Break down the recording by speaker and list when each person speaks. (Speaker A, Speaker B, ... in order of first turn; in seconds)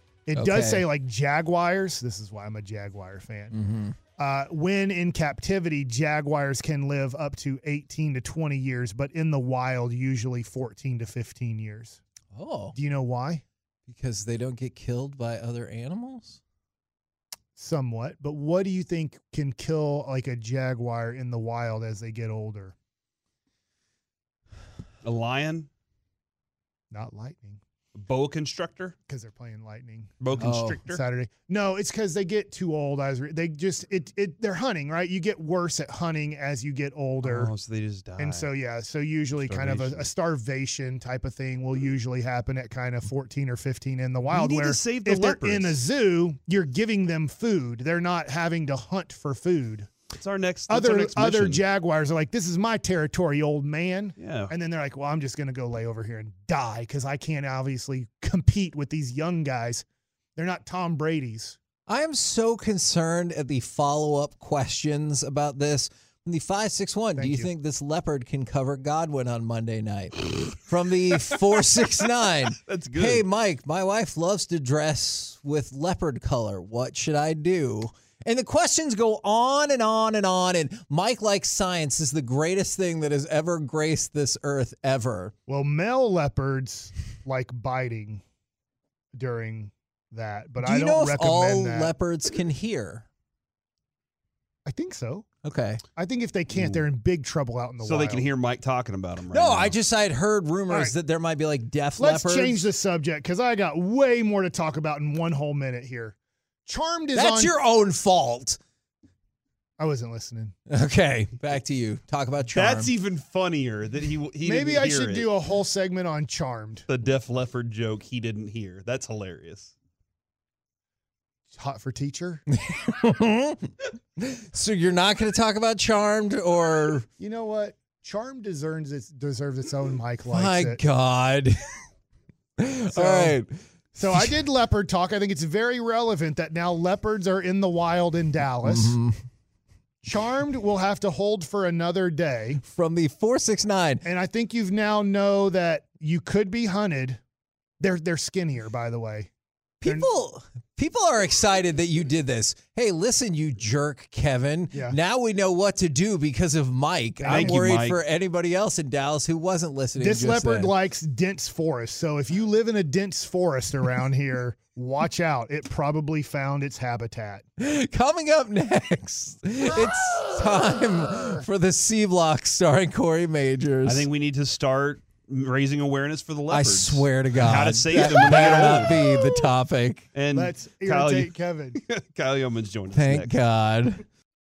Speaker A: 0.3-3.5, 4.2-12.0, 12.8-13.4, 17.6-22.7, 26.9-27.6, 29.1-37.5, 38.2-49.9, 50.7-59.8, 60.4-61.6, 67.2-67.5, 85.5-88.2, 89.1-91.9, 94.7-95.3, 96.0-98.3, 102.0-107.5, 109.8-110.5, 114.4-116.8, 121.5-122.4, 127.2-130.8, 132.9-133.3, 133.9-139.0, 140.0-142.6, 144.0-147.2, 147.8-149.3, 154.7-155.0, 157.2-157.8, 160.0-167.4, 177.9-179.0, 180.3-181.8
Speaker B: 0.3-0.9, 3.5-4.0, 12.3-12.8, 13.9-16.4, 30.4-30.8, 61.9-85.3, 90.6-93.0, 95.4-95.8, 99.3-102.6, 107.1-108.6, 110.7-112.9, 122.5-127.1, 130.3-131.6, 132.6-133.5, 138.6-139.2, 142.6-144.0, 149.8-160.7, 167.6-174.1, 176.5-180.1, 182.9-184.0
Speaker C: 25.0-25.7, 27.9-28.9, 30.2-31.0, 37.2-38.5, 39.4-40.1, 44.3-45.8, 50.1-51.6, 54.2-54.5, 72.6-73.2, 96.5-96.8, 97.8-99.8, 112.5-115.3, 116.9-119.7, 157.3-158.0, 173.8-179.0, 180.1-183.4